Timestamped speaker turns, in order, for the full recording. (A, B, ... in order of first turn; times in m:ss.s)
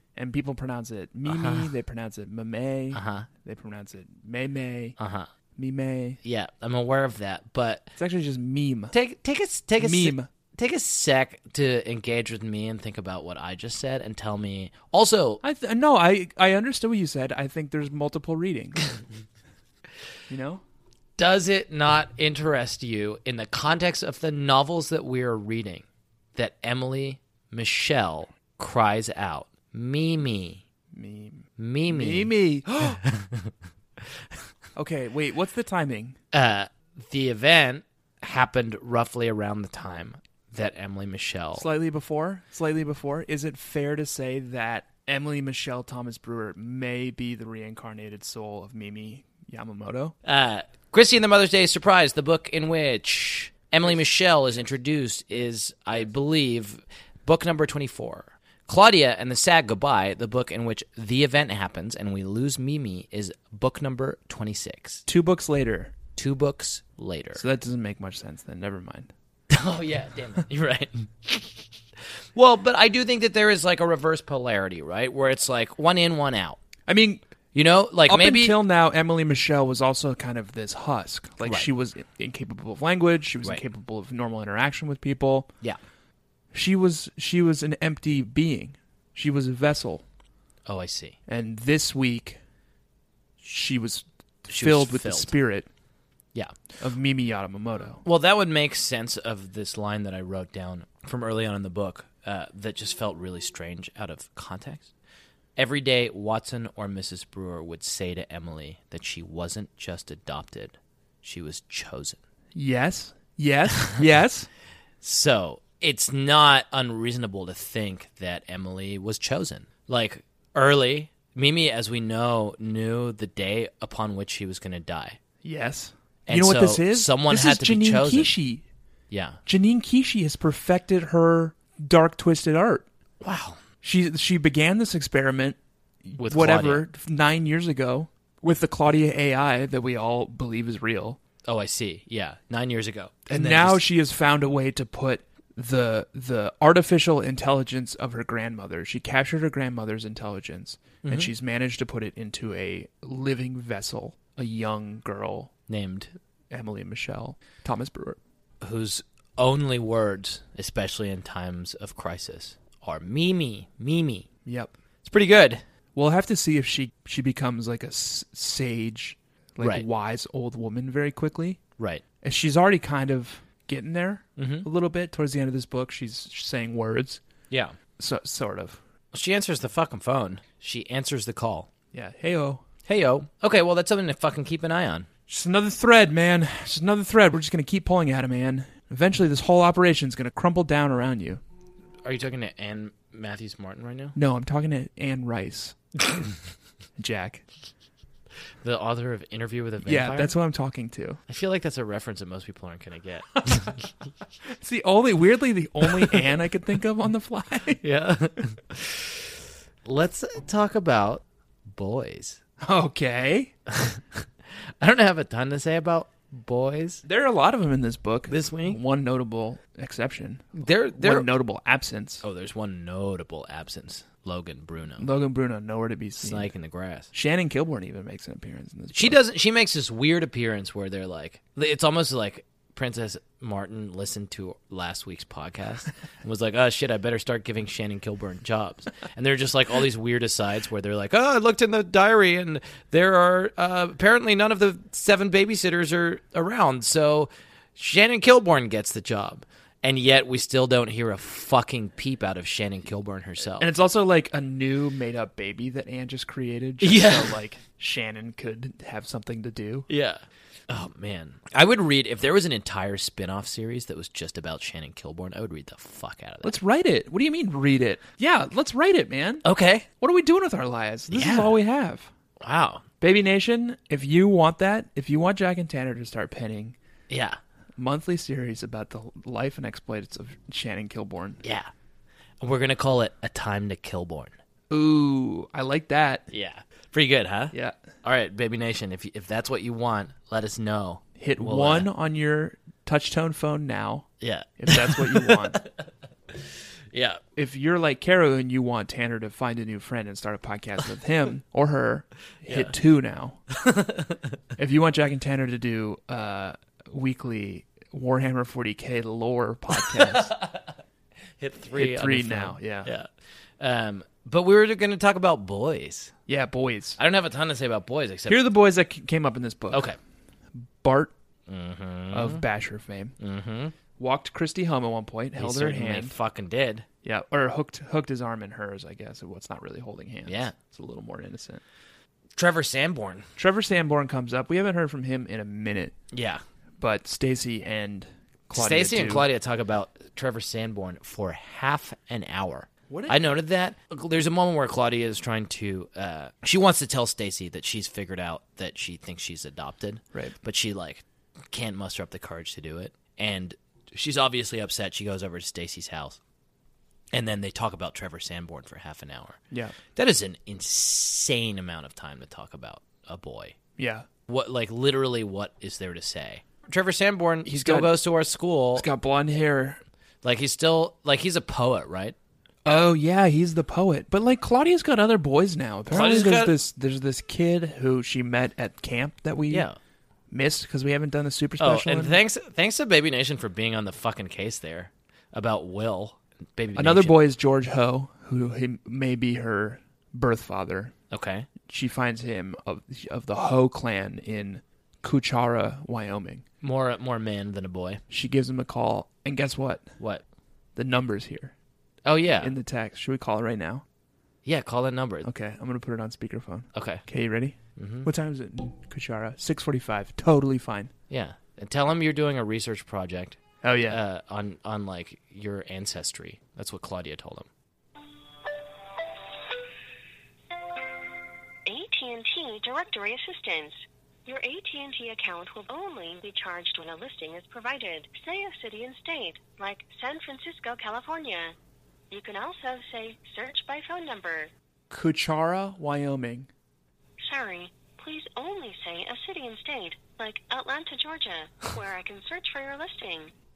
0:00.2-0:05.0 A
0:01.3-0:01.7 B
0:02.9-0:03.3 B
0:05.0-0:05.3 B
0:05.6-0:06.2 A
0:06.2-0:08.0 B
0:08.0-0:08.9 A
0:08.9-0:15.4 B
0:09.8-0:10.3 A
0:15.4-0:18.9 A
0:20.3-0:20.6 A
0:21.2-0:30.6 B
0:30.9-0:33.0 A
0:31.6-0:33.5 B
0:34.7-0:36.2 A
0:36.3-0:41.7 B
0:41.5-0:50.2 A
0:50.2-1:05.0 B
1:05.1-1:05.9 A
1:06.2-1:07.4 B
1:07.3-1:09.1 A
1:09.5-1:11.6 B
1:12.3-1:16.6 B
1:16.9-1:17.2 A
1:17.5-1:18.6 B
1:18.0-1:25.5 A
1:26.5-1:30.0 A
1:30.6-1:31.2 B
1:31.3-1:32.4 A
1:33.4-1:35.7 A
1:34.5-1:35.3 B
1:36.8-1:38.0 A
1:38.0-1:44.9 B
1:45.6-1:52.2 B
1:52.5-1:54.5 A
1:55.0-2:05.2 B
2:05.4-2:08.6 A
2:06.3-2:08.3 B
2:09.1-2:09.4 B
2:09.4-2:12.9 A
2:13.2-2:13.6 B
2:13.8-2:21.2 A
2:16.2-2:16.8 B
2:21.5-2:23.8 B
2:23.3-2:35.5 A
2:31.0-2:31.3 B
2:35.7-2:36.1 B
2:36.5-2:38.2 A
2:38.6-2:44.3 B
2:44.4-2:44.7 A
2:45.0-2:45.6 B
2:46.0-2:51.6 A
2:49.6-2:49.8 B
2:51.8-2:52.0 B
2:52.2-2:57.2 A
2:54.4-2:54.7 B
2:57.5-2:57.8 B
2:58.0-2:58.8 A
2:59.1-3:01.7 B
3:01.9-3:02.6 A
3:02.8-3:05.1 B
3:05.3-3:11.4 A
3:12.0-3:14.2 B
3:14.1-3:15.8 A
3:17.0-3:17.4 A
3:18.6-3:20.3 B
3:19.8-3:21.2 A
3:21.3-3:23.8 B
3:24.5-3:27.8 A
3:27.8-3:29.3 B
3:29.8-3:32.4 B
3:32.6-3:33.5 A
3:33.7-3:34.0 B
3:34.8-3:37.0 B
3:37.0-3:42.2 A
3:38.3-3:38.8 B
3:40.6-3:41.3 B
3:42.2-3:45.1 B
3:45.0-3:46.5 A
3:46.2-3:47.1 B
3:47.1-3:49.2 A
3:48.9-4:13.7 B
4:13.6-4:19.9 A
4:16.8-4:17.4 B
4:19.9-4:26.6 B
4:26.4-4:29.4 A
4:29.4-4:29.8 B
4:30.0-4:32.1 A
4:31.1-4:31.6 B
4:32.4-4:32.8 B
4:33.0-4:36.8 A
4:37.1-4:37.4 B
4:37.8-4:41.4 A
4:41.4-4:41.7 B
4:42.4-4:44.3 B
4:44.7-4:46.3 A
4:46.3-4:51.9 B
4:51.2-4:55.6 A
4:54.2-4:57.2 B
4:57.4-5:03.4 A
5:02.4-5:02.7 B
5:03.5-5:04.4 B
5:04.6-5:10.3 A
5:09.9-5:10.7 B
5:11.4-5:16.1 B
5:11.7-5:12.9 A
5:16.3-5:17.0 A
5:17.0-5:18.4 B
5:18.3-5:19.8 A
5:19.7-5:20.0 B
5:20.5-5:21.1 A
5:21.5-5:22.4 B
5:22.1-5:23.1 A
5:23.2-5:23.7 B
5:24.0-5:26.2 A
5:25.4-5:26.8 B
5:27.0-5:31.6 A
5:30.2-5:30.5 B
5:32.4-5:33.3 B
5:33.4-5:35.9 A
5:36.1-5:36.4 B
5:36.8-5:39.3 A
5:38.5-5:56.2 B
5:42.9-5:43.2 A
5:57.1-5:59.4 B
5:59.5-5:59.8 A
5:59.9-6:03.6 B
6:03.8-6:04.1 A
6:04.3-6:08.9 B
6:07.4-6:07.9 A
6:08.7-6:09.8 A
6:10.2-6:12.1 B
6:12.6-6:19.7 A
6:15.9-6:16.5 B
6:19.5-6:19.8 B
6:20.3-6:22.2 A
6:21.6-6:27.2 B
6:26.7-6:30.9 A
6:31.1-6:31.5 B
6:31.7-6:36.4 A
6:36.6-6:38.0 B
6:38.1-6:39.9 A
6:40.0-6:40.2 B
6:40.8-6:41.5 A
6:42.0-6:42.5 B
6:42.4-6:43.8 A
6:44.4-6:45.3 B
6:45.2-6:50.9 A
6:46.7-6:47.0 B
6:47.8-6:48.1 B
6:51.1-6:57.5 B
6:53.6-6:54.0 A
7:01.6-7:11.6 C
7:12.1-7:14.5 C
7:14.9-7:16.5 A
7:17.2-7:23.3 C